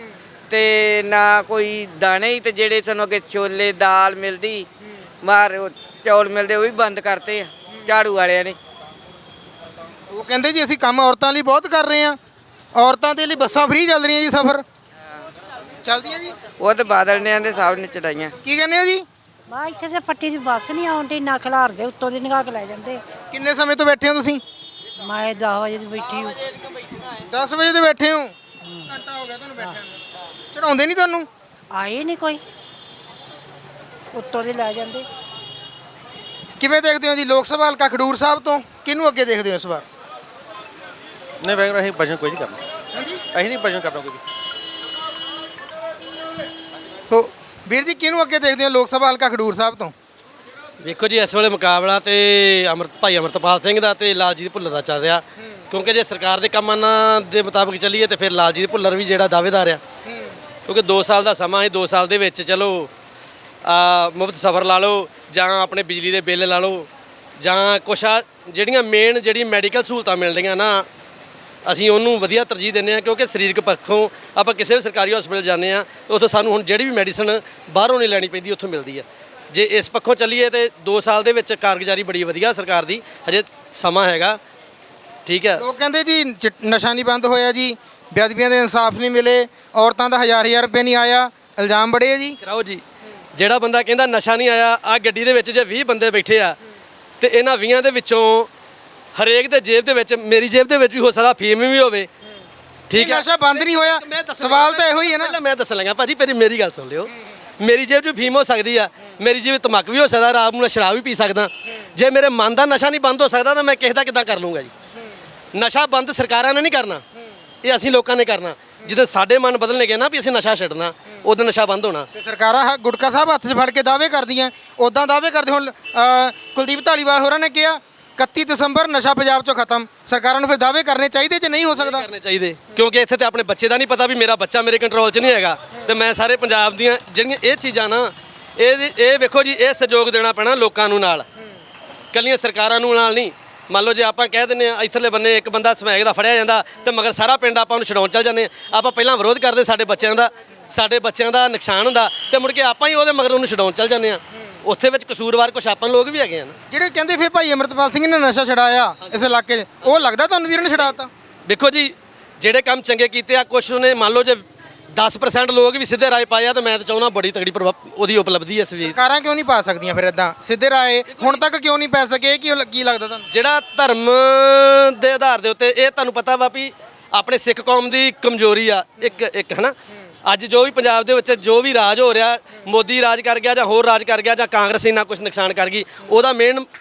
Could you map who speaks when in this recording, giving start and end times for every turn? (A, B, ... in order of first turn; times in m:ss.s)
0:00.5-0:04.6 A
0:05.2-0:08.6 A
0:10.1-0:12.2 B
0:12.7-0:14.6 B
0:15.8-0:16.4 B
0:16.6-0:18.3 A
0:18.4-0:19.0 B
0:19.5-0:23.0 C
0:23.3-0:24.4 B
0:25.0-0:26.4 C
0:27.3-0:28.3 B
0:28.8-0:29.9 B
0:30.5-0:31.3 B
0:31.7-0:32.4 C
0:34.1-0:35.0 C
0:36.6-0:39.8 B
0:41.4-0:42.6 D
0:42.9-0:43.2 B
0:43.3-0:44.2 D
0:47.1-0:49.9 B
0:50.8-0:59.8 E
1:00.0-1:00.3 B
1:00.7-1:02.9 E
1:03.6-1:06.9 E
1:07.4-1:10.8 E
1:11.6-1:24.4 E
1:25.2-1:25.6 E
1:25.6-1:32.4 B
1:32.4-1:32.8 E
1:33.3-1:36.6 E
1:37.2-1:38.5 E
1:39.1-1:42.1 E
1:42.9-1:54.7 E
1:42.9-1:45.4 B
1:55.5-1:57.0 E
1:57.6-2:02.1 E
2:02.1-2:12.0 B
2:11.8-2:21.2 E
2:22.1-2:36.5 E
2:36.7-2:41.1 B
2:41.4-2:49.0 E
2:48.9-2:53.2 B
2:51.1-2:51.4 E
2:53.3-2:59.7 E
3:00.2-3:06.7 E